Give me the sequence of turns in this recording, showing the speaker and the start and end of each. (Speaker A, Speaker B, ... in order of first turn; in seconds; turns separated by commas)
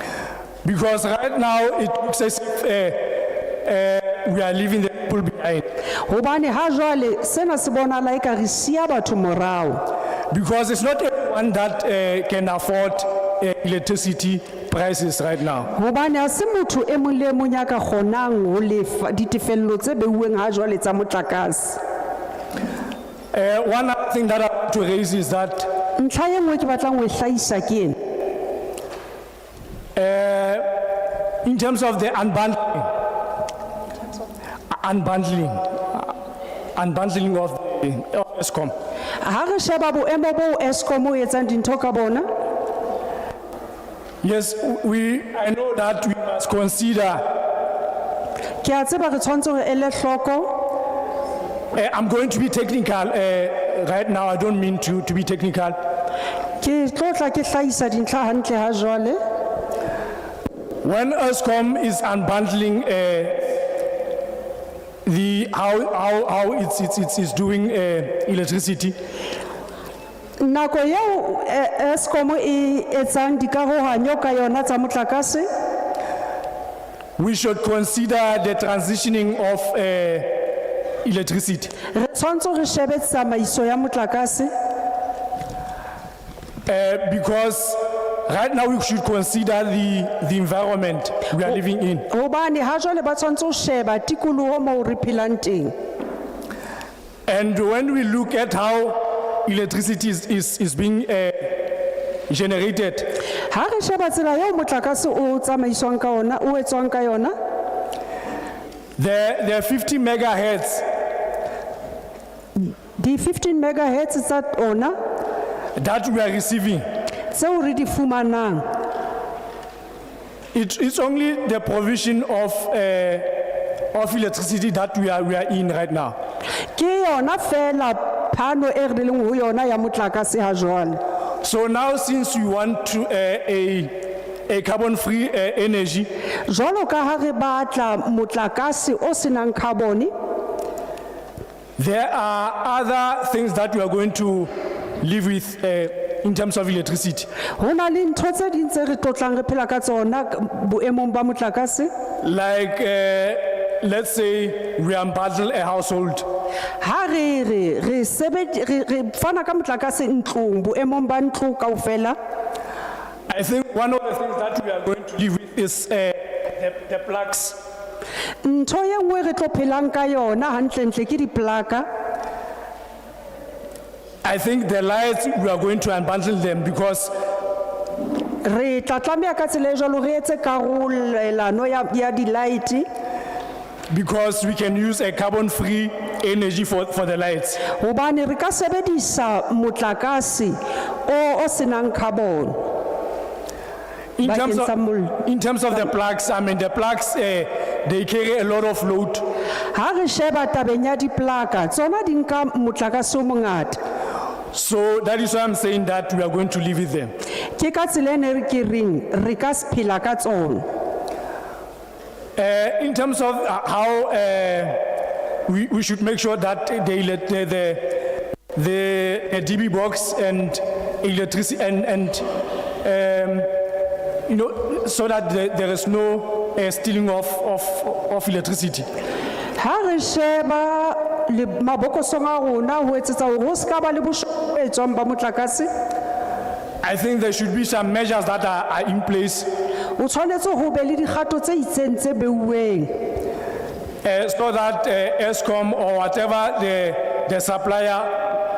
Speaker A: 0.6-5.6, Speaker B: 6.0-9.8, Speaker A: 10.3-15.7, Speaker B: 15.7-21.8, Speaker A: 23.3-25.7, Speaker B: 26.0-28.0, Speaker A: 29.9-30.9, Speaker A: 31.4-33.0, Speaker A: 34.7-36.1, Speaker A: 36.8-38.7, Speaker B: 39.2-42.3, Speaker A: 44.2-47.3, Speaker B: 48.6-50.6, Speaker A: 51.7-55.8, Speaker B: 56.6-59.2, Speaker A: 60.8-63.6, Speaker A: 65.0-68.9, Speaker B: 70.4-75.5, Speaker A: 77.2-80.5, Speaker A: 81.0-81.7, Speaker B: 81.9-84.5, Speaker A: 86.7-92.1, Speaker B: 92.1-95.7, Speaker A: 97.3-101.7, Speaker A: 102.3-103.1, Speaker B: 103.5-107.3, Speaker A: 109.0-110.8, Speaker B: 112.6-115.0, Speaker A: 115.8-116.8, Speaker B: 117.3-118.7, Speaker A: 120.5-123.3, Speaker A: 123.9-126.2, Speaker B: 126.7-131.0, Speaker A: 131.4-133.9, Speaker A: 134.5-136.1, Speaker B: 136.5-140.1, Speaker A: 141.8-144.5, Speaker A: 145.0-147.3, Speaker B: 147.6-151.9, Speaker A: 152.2-156.3, Speaker B: 156.8-162.2, Speaker A: 163.3-167.6, Speaker B: 168.4-171.9, Speaker A: 174.2-177.1, Speaker B: 178.4-182.8, Speaker A: 183.9-187.6, Speaker B: 187.7-192.7, Speaker A: 194.2-199.2, Speaker B: 194.2-195.2, Speaker B: 199.7-203.8, Speaker A: 204.5-207.1, Speaker B: 207.6-210.7, Speaker A: 212.4-214.8, Speaker A: 215.4-222.2, Speaker A: 222.8-223.5, Speaker A: 224.3-228.9, Speaker B: 229.6-235.7, Speaker A: 236.8-239.5, Speaker B: 240.0-243.0, Speaker A: 244.0-248.3